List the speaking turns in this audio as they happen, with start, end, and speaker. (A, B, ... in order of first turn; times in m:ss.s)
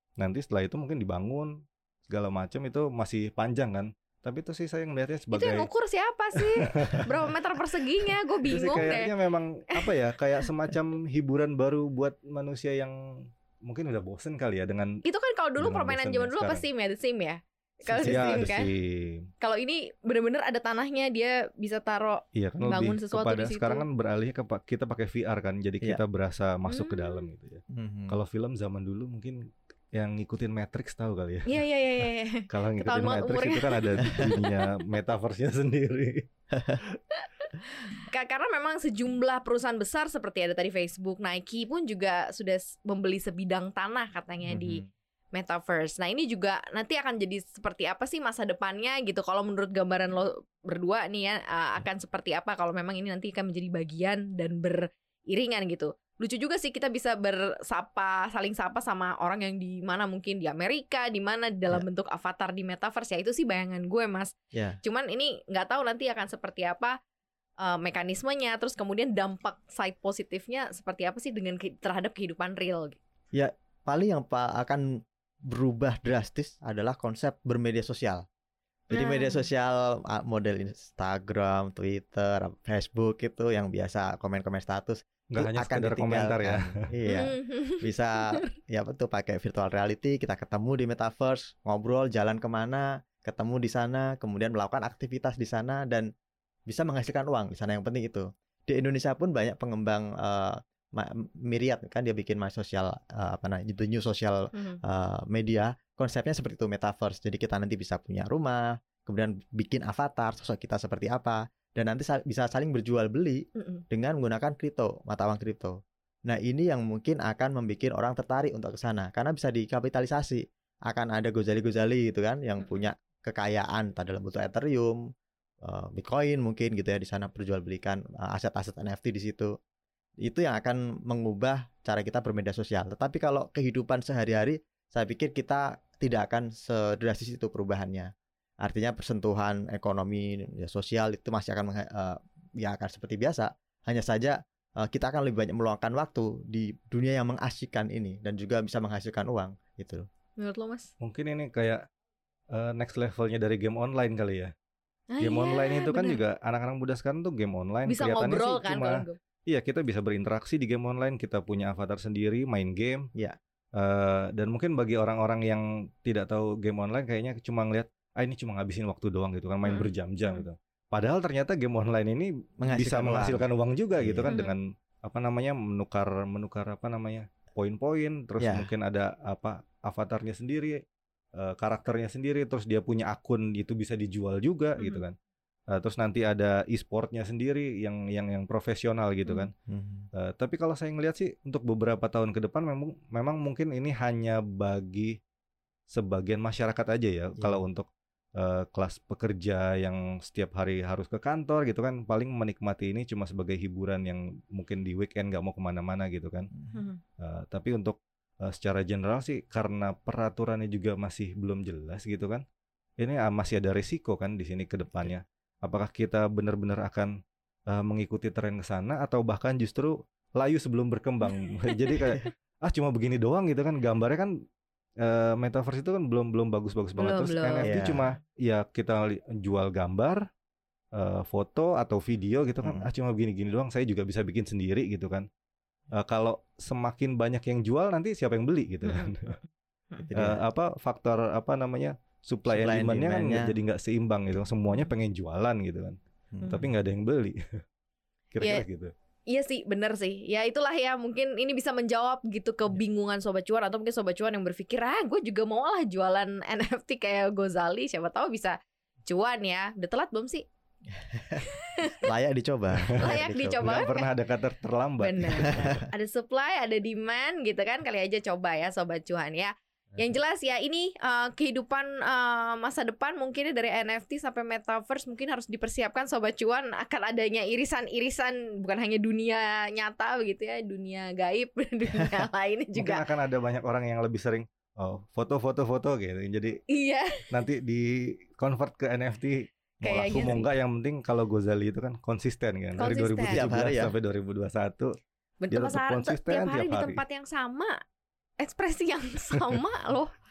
0:00.2-0:05.7 A
0:05.3-0:09.1 B
0:06.4-0:07.3 A
0:08.1-0:15.0 A
0:15.0-0:18.7 B
0:15.6-0:16.6 A
0:17.9-0:18.5 C
0:18.0-0:19.3 A
0:19.4-0:23.8 B
0:22.4-0:31.6 A
0:26.7-0:27.3 B
0:27.7-0:28.2 C
0:31.5-0:34.8 B
0:32.5-0:36.3 A
0:36.5-0:36.8 C
0:37.1-0:44.8 B
0:44.5-0:44.9 C
0:45.3-1:07.0 B
1:07.6-1:13.0 B
1:13.3-1:18.2 C
1:18.9-1:19.5 B
1:18.9-1:36.1 C
1:25.3-1:26.8 A
1:27.1-1:28.5 B
1:36.7-1:55.8 C
1:44.5-1:44.8 B
1:53.6-1:53.8 B
1:56.3-2:05.0 C
2:05.6-2:09.5 C
2:10.2-2:18.1 C
2:18.6-2:30.1 C
2:30.4-2:30.9 B
2:31.0-2:31.8 A
2:32.5-2:34.5 A
2:35.1-2:36.2 B
2:35.2-2:43.1 A
2:37.9-2:39.2 B
2:43.8-3:00.8 A
2:49.6-2:50.4 B
2:52.6-2:53.4 C
2:54.0-2:54.3 C
2:54.3-2:54.5 B
2:58.4-2:58.7 C
3:01.4-3:05.2 A
3:04.8-3:05.0 B
3:05.7-3:09.5 A
3:09.7-3:10.1 C
3:10.1-3:15.2 A
3:15.9-3:26.5 A
3:26.7-3:27.0 B
3:27.2-3:32.4 A
3:33.0-3:37.1 A
3:37.7-3:44.3 A
3:45.0-3:50.3 A
3:47.0-3:47.7 B
3:47.6-3:48.0 C
3:50.9-3:55.3 A
3:52.6-3:52.9 C
3:55.9-3:59.4 A
3:58.8-4:00.0 B
4:00.0-4:00.4 C
4:00.2-4:07.6 A
4:02.5-4:03.5 C
4:06.3-4:06.6 C
4:08.3-4:08.9 A
4:09.3-4:20.4 B
4:21.1-4:23.7 C
4:21.4-4:22.1 B
4:23.0-4:24.1 B
4:23.0-4:25.8 A
4:25.0-4:43.1 B
4:25.6-4:25.9 C
4:42.8-4:46.6 A
4:46.7-4:47.2 B
4:47.3-4:54.9 A
4:49.8-4:50.5 B
4:52.8-4:53.5 B
4:53.3-4:53.9 C
4:55.4-4:57.8 B
4:55.5-4:57.0 A
4:58.4-5:00.1 B